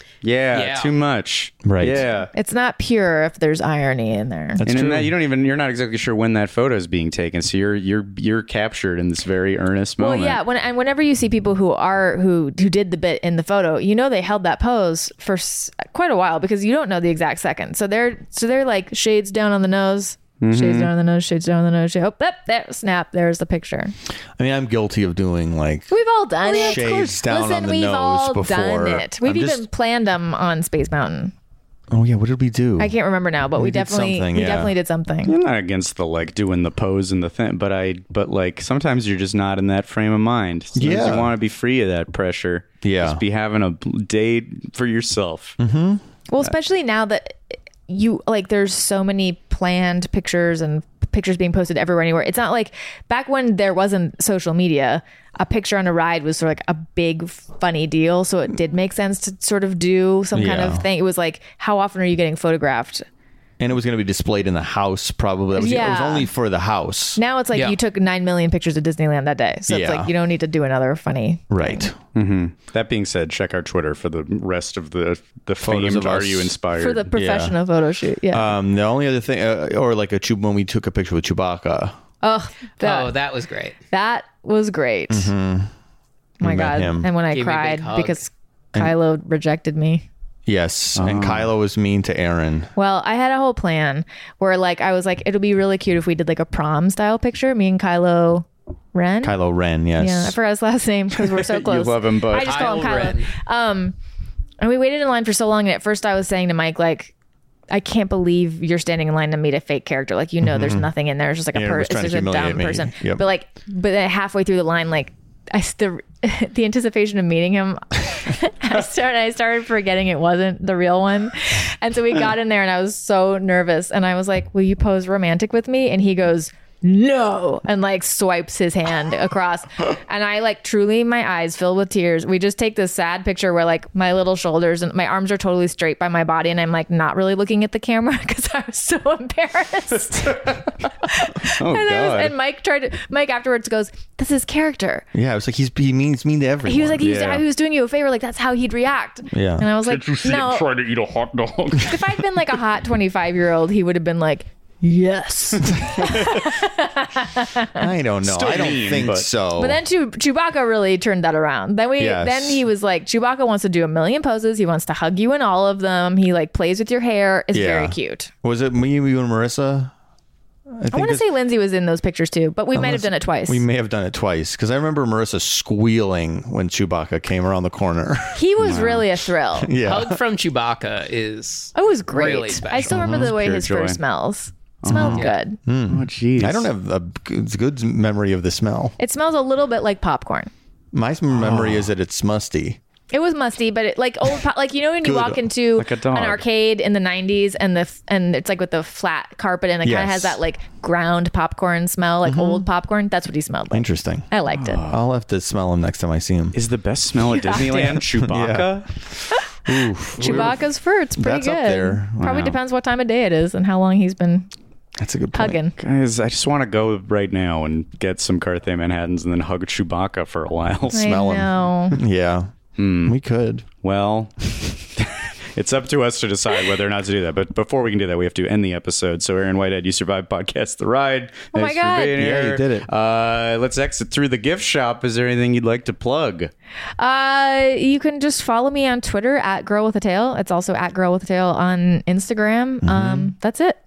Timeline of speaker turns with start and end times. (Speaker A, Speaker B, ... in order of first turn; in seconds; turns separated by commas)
Speaker A: 0.2-2.3, Speaker B: 0.5-0.9, Speaker C: 1.6-2.1, Speaker D: 2.3-4.6, Speaker C: 4.6-5.1, Speaker A: 4.7-10.4, Speaker D: 10.0-23.9, Speaker A: 20.4-20.9, Speaker C: 24.4-25.9, Speaker D: 25.9-31.3, Speaker C: 26.4-29.6, Speaker C: 31.9-32.9, Speaker D: 32.8-35.3, Speaker C: 33.5-34.7, Speaker A: 35.2-45.6, Speaker C: 40.8-41.3, Speaker C: 42.8-43.2, Speaker C: 45.6-46.0, Speaker D: 46.3-63.0, Speaker C: 60.3-60.9, Speaker C: 63.6-67.2, Speaker D: 65.5-66.3, Speaker D: 67.2-71.8, Speaker B: 67.5-67.8, Speaker C: 69.7-70.1, Speaker C: 71.5-72.0, Speaker A: 72.1-77.0, Speaker C: 75.6-76.5, Speaker D: 76.8-78.5, Speaker C: 77.1-77.5, Speaker C: 78.3-81.9, Speaker D: 82.2-83.1, Speaker B: 82.8-83.8, Speaker D: 83.9-85.3, Speaker C: 85.1-85.7, Speaker C: 86.4-87.1, Speaker D: 86.4-90.0, Speaker B: 87.3-88.2, Speaker C: 90.5-92.7, Speaker A: 91.0-91.5, Speaker D: 92.8-99.4, Speaker C: 99.2-100.3, Speaker D: 100.0-103.9, Speaker A: 101.2-103.1, Speaker B: 102.3-103.3, Speaker D: 104.6-107.1, Speaker D: 107.7-145.1, Speaker C: 110.4-110.9, Speaker C: 111.5-113.2, Speaker A: 141.4-142.3, Speaker C: 145.1-147.1, Speaker D: 146.6-150.7, Speaker A: 147.0-147.4, Speaker C: 149.3-149.7, Speaker E: 149.8-152.2, Speaker D: 151.8-157.8, Speaker C: 157.7-159.8, Speaker A: 158.2-159.3, Speaker D: 159.6-168.3, Speaker C: 162.0-162.6, Speaker C: 167.5-169.9, Speaker C: 170.8-171.2, Speaker D: 170.9-173.6, Speaker C: 172.7-178.5, Speaker D: 178.3-179.7, Speaker A: 178.6-179.1, Speaker C: 179.6-180.2, Speaker B: 179.8-182.9, Speaker D: 181.7-185.6, Speaker A: 182.9-184.0, Speaker C: 182.9-183.3, Speaker A: 184.8-185.3, Speaker C: 184.9-188.9, Speaker A: 185.9-186.7, Speaker D: 189.0-190.5, Speaker C: 190.9-192.8, Speaker A: 191.3-191.9, Speaker D: 193.1-204.8, Speaker C: 195.0-195.4, Speaker A: 195.8-196.4, Speaker C: 199.8-200.4, Speaker C: 202.2-202.7, Speaker C: 203.7-204.3, Speaker A: 204.5-205.0, Speaker C: 204.9-206.6, Speaker A: 206.5-208.9, Speaker D: 207.3-208.0, Speaker C: 207.5-208.7, Speaker C: 209.6-210.6, Speaker D: 210.2-214.5, Speaker A: 210.2-210.5, Speaker C: 211.1-212.5, Speaker A: 212.2-212.6, Speaker C: 215.0-215.6, Speaker D: 215.3-215.8, Speaker A: 215.8-221.1, Speaker C: 220.9-223.7, Speaker D: 220.9-222.0, Speaker A: 222.8-223.1, Speaker A: 223.8-236.5, Speaker D: 231.5-232.2, Speaker C: 232.1-232.9, Speaker D: 237.0-243.8, Speaker C: 242.8-243.3